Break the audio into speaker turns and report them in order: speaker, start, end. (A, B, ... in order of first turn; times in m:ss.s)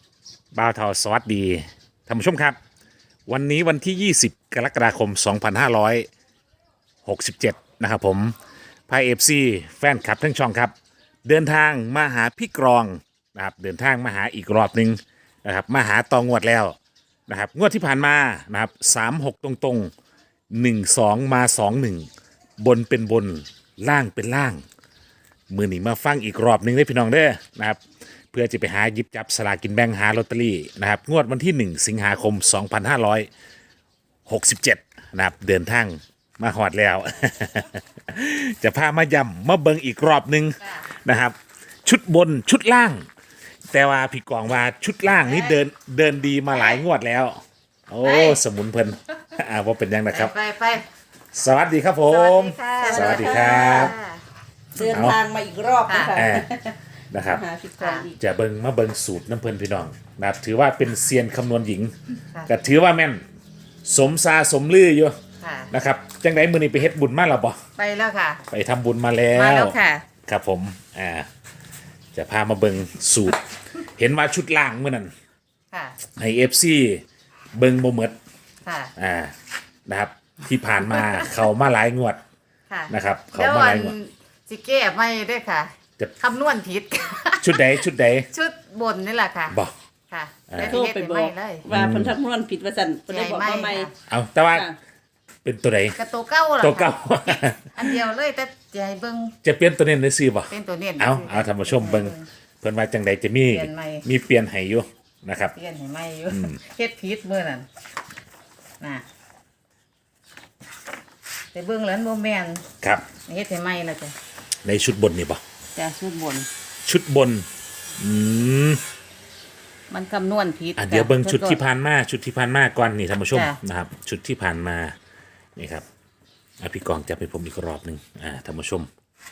0:00.5-0:02.6 A
0:03.3-0:06.1 A
0:07.0-0:08.4 A
0:08.9-0:10.7 A
0:11.2-0:16.8 A
0:17.3-0:19.9 A
0:20.5-0:22.1 A
0:22.6-0:24.6 A
0:25.5-0:27.8 A
0:28.3-0:33.3 A
0:34.3-0:43.0 A
0:43.7-0:50.3 A
0:45.1-0:45.6 B
0:48.0-0:48.4 B
0:50.1-0:50.9 B
0:51.3-0:53.9 A
0:52.1-0:54.2 B
0:52.8-0:53.9 C
0:54.8-0:56.8 C
0:54.8-0:55.2 A
0:55.9-0:56.2 B
0:56.1-0:56.5 A
0:57.1-0:57.4 A
0:57.3-0:58.2 C
0:57.8-0:58.1 B
0:58.2-1:01.9 A
1:02.5-1:03.2 A
1:03.9-1:05.1 A
1:05.4-1:05.7 B
1:05.7-1:07.6 A
1:07.8-1:08.4 B
1:08.5-1:11.3 A
1:09.3-1:10.1 B
1:12.1-1:15.1 A
1:15.7-1:16.0 B
1:16.2-1:17.0 A
1:17.6-1:18.2 A
1:18.6-1:18.9 B
1:19.0-1:19.3 A
1:19.9-1:22.2 A
1:20.9-1:21.3 B
1:22.7-1:29.6 B
1:22.9-1:24.0 A
1:27.4-1:28.3 A
1:30.1-1:31.7 B
1:30.5-1:30.8 A
1:30.6-1:33.9 C
1:31.7-1:32.2 A
1:33.1-1:33.9 B
1:34.0-1:34.7 A
1:34.5-1:34.8 C
1:35.4-1:36.0 A
1:36.0-1:39.4 B
1:36.6-1:38.0 A
1:39.4-1:45.5 A
1:40.5-1:42.3 B
1:43.5-1:44.1 B
1:45.6-1:47.7 B
1:46.3-1:46.6 A
1:51.5-1:52.6 B
1:52.8-1:53.1 A
1:53.2-1:54.2 B
1:54.6-1:55.4 A
1:55.8-1:56.5 B
1:56.8-1:57.5 A
1:58.0-1:58.8 A
1:59.9-2:01.6 B
2:00.8-2:05.0 A
2:03.3-2:03.6 B
2:05.6-2:05.9 A
2:06.6-2:08.9 A